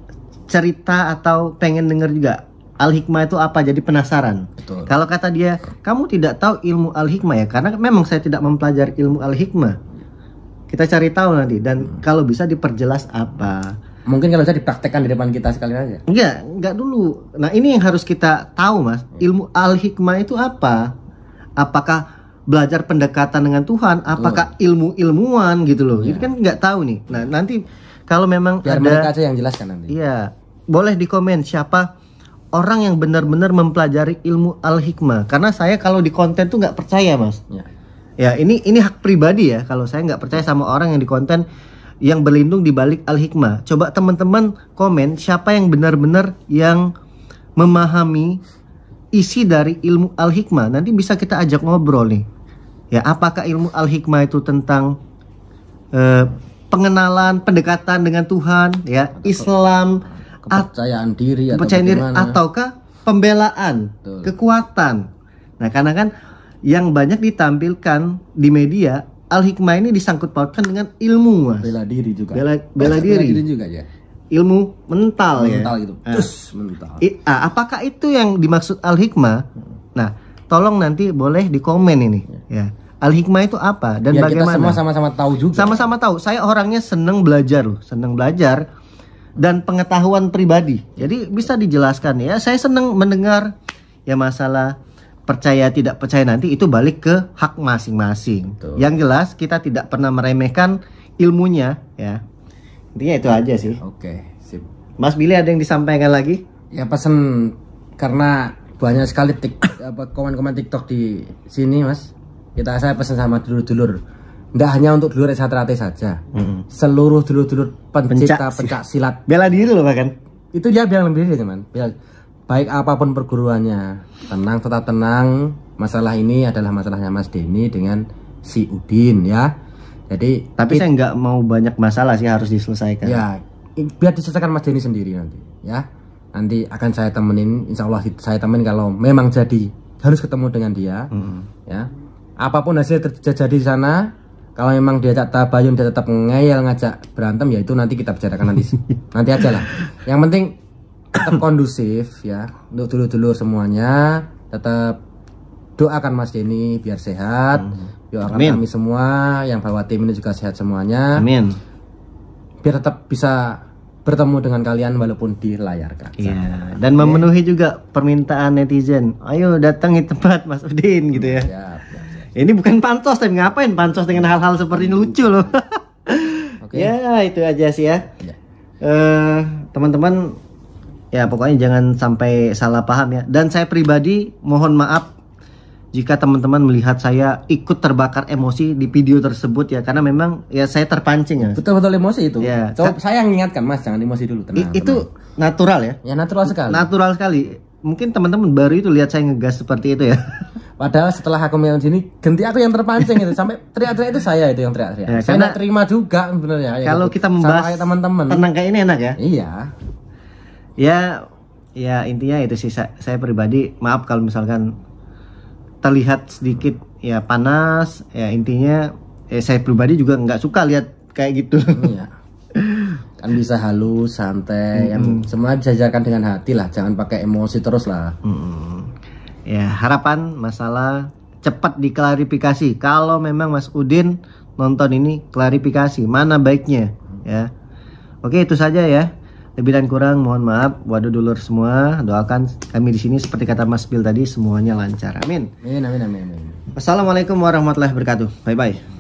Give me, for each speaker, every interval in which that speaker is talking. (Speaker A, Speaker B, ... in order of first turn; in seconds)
Speaker A: 0.5-9.8, 10.7-13.7, 16.1-20.9, 21.6-29.1, 29.9-31.9, 32.5-37.4, 38.2-41.4, 42.0-46.9, 47.6-48.4, 49.1-52.2, 52.9-54.9, 55.9-60.7, 61.5-65.0, 65.6-66.1, 66.7-71.7, 72.3-73.4, 74.3-76.3, 77.0-79.5, 80.0-84.8, 85.5-88.6, 89.4-93.5, 94.1-94.7, 95.3-102.2, 103.0-103.8, 105.0-106.4, 116.3-116.6, 118.1-118.8, 119.3-120.1, 130.6-133.2, 141.1-141.5, 158.3-158.6, 161.2-161.6, 166.2-171.5, 172.3-178.1, 178.8-180.4, 181.1-185.1, 185.9-191.6, 192.4-193.0, 194.6-200.5, 205.1-205.6, 206.8-209.2, 210.8-211.2, 211.8-214.7, 215.8-221.9, 222.6-223.0, 224.8-225.3, 228.2-228.9, 229.5-237.5, 238.2-245.5, 246.8-248.8
Speaker B: 4.6-4.9, 14.1-16.0, 24.1-24.5, 26.0-26.3, 28.6-29.9, 59.1-59.5, 60.0-62.4, 64.0-64.3, 71.6-73.9, 75.4-77.1, 84.1-85.9, 98.6-98.8, 103.8-104.7, 106.7-114.0, 114.5-119.3, 120.5-121.9, 122.5-129.5, 130.1-130.8, 133.0-135.8, 136.3-141.1, 142.4-144.0, 144.6-150.5, 151.2-155.0, 155.8-161.2, 162.6-166.4, 167.0-167.3, 171.1-172.3, 176.6-176.9, 191.5-195.0, 196.0-196.9, 200.8-208.5, 209.2-209.7, 221.8-222.1, 223.2-228.2, 245.6-246.6